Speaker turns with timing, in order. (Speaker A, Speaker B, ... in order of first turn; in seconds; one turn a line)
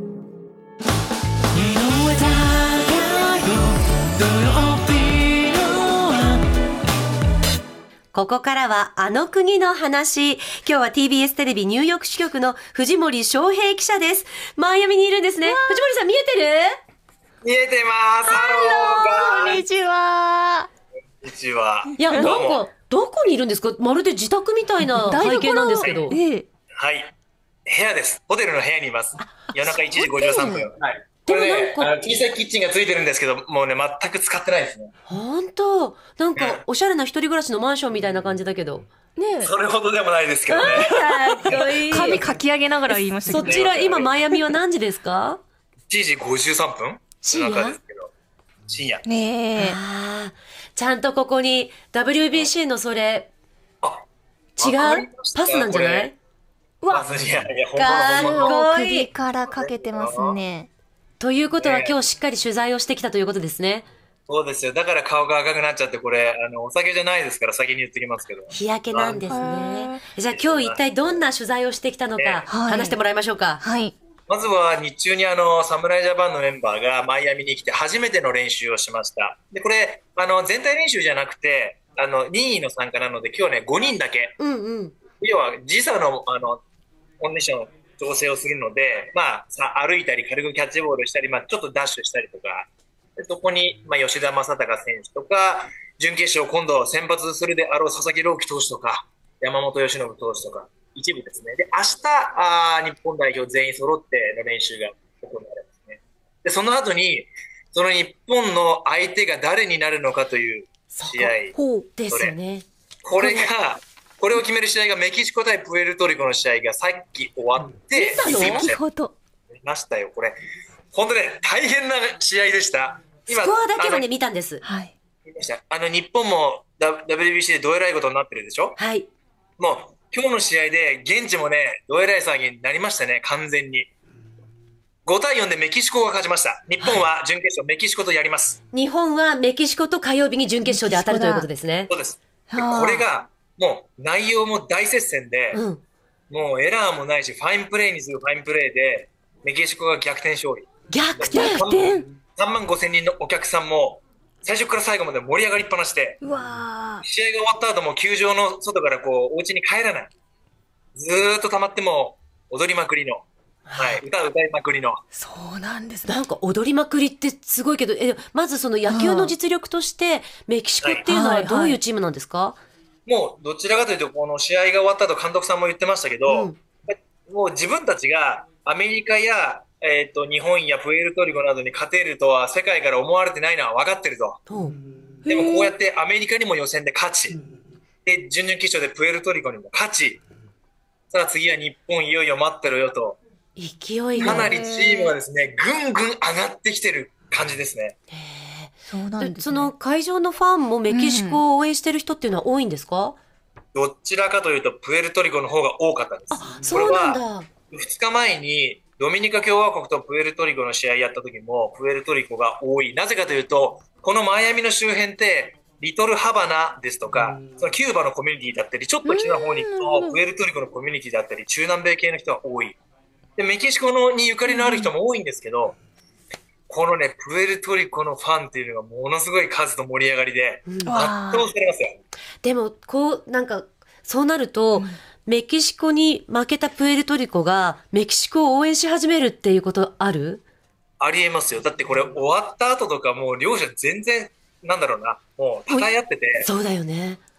Speaker A: 2.2-3.4
Speaker A: 8.1-16.8
Speaker B: 15.4-15.9
Speaker C: 17.4-19.6
Speaker A: 18.3-19.6
Speaker B: 18.4-20.7
Speaker C: 21.2-22.6
Speaker A: 22.0-26.2
Speaker B: 24.9-26.5
Speaker C: 25.8-26.1
Speaker C: 26.8-27.1
Speaker C: 27.7-34.9
Speaker A: 30.0-30.7
Speaker A: 31.2-31.9
Speaker A: 35.1-38.9
Speaker C: 36.4-36.6
Speaker B: 39.2-39.5
Speaker C: 39.4-42.2
Speaker A: 40.5-42.2
Speaker B: 40.6-43.6
Speaker A: 42.9-45.4
Speaker C: 43.2-44.1
Speaker C: 45.9-48.1
Speaker A: 47.2-47.8
Speaker C: 48.7-49.0
Speaker B: 49.0-49.8
Speaker A: 49.5-53.3
Speaker A: 54.6-56.1
Speaker C: 54.6-56.1
Speaker B: 56.8-57.4
Speaker C: 56.9-58.5
Speaker A: 57.7-59.1
Speaker B: 58.0-60.7
Speaker C: 59.4-60.4
Speaker A: 61.2-63.9
Speaker C: 61.6-61.9
Speaker C: 64.3-69.3
Speaker A: 68.5-73.6
Speaker B: 69.3-70.0
Speaker C: 70.3-71.2
Speaker C: 72.2-72.5
Speaker B: 72.5-73.0
Speaker B: 73.6-73.9
Speaker C: 74.3-84.4
Speaker A: 84.4-85.0
Speaker C: 85.2-86.6
Speaker C: 87.2-111.5
Speaker A: 110.9-111.3
Speaker B: 111.5-111.9
Speaker A: 112.0-112.7
Speaker C: 112.1-112.3
Speaker C: 113.0-118.8
Speaker A: 113.2-113.5
Speaker A: 117.9-118.7
Speaker B: 118.2-119.1
Speaker C: 119.5-120.4
Speaker C: 120.9-124.0
Speaker A: 123.3-124.6
Speaker B: 124.6-124.9
Speaker C: 125.2-128.8
Speaker A: 128.8-129.1
Speaker C: 129.6-133.9
Speaker C: 135.1-138.6
Speaker A: 138.7-141.9
Speaker B: 140.7-141.5
Speaker C: 141.9-145.6
Speaker B: 142.5-143.1
Speaker A: 145.5-145.8
Speaker C: 146.3-150.7
Speaker A: 150.9-151.7
Speaker C: 151.2-156.2
Speaker B: 151.2-152.1
Speaker B: 156.2-157.0
Speaker C: 157.0-160.1
Speaker C: 160.9-165.0
Speaker A: 163.7-164.0
Speaker B: 165.1-166.1
Speaker A: 166.1-172.6
Speaker B: 168.9-169.3
Speaker B: 171.1-171.8
Speaker C: 173.1-184.4
Speaker A: 176.3-176.6
Speaker A: 184.5-184.8
Speaker B: 185.2-185.7
Speaker C: 185.3-187.4
Speaker C: 188.1-190.2
Speaker C: 191.1-193.2
Speaker A: 193.6-194.5
Speaker B: 194.2-195.2
Speaker C: 194.2-197.9
Speaker A: 198.1-203.2
Speaker B: 198.9-199.7
Speaker B: 200.9-201.4
Speaker C: 203.7-207.2
Speaker A: 206.3-207.5
Speaker C: 207.7-222.8
Speaker B: 219.0-220.2
Speaker C: 223.4-225.8
Speaker B: 224.5-224.9
Speaker C: 226.7-232.0
Speaker A: 230.7-230.9
Speaker B: 230.8-231.5
Speaker A: 232.4-240.4
Speaker C: 241.0-246.5
Speaker A: 246.4-247.2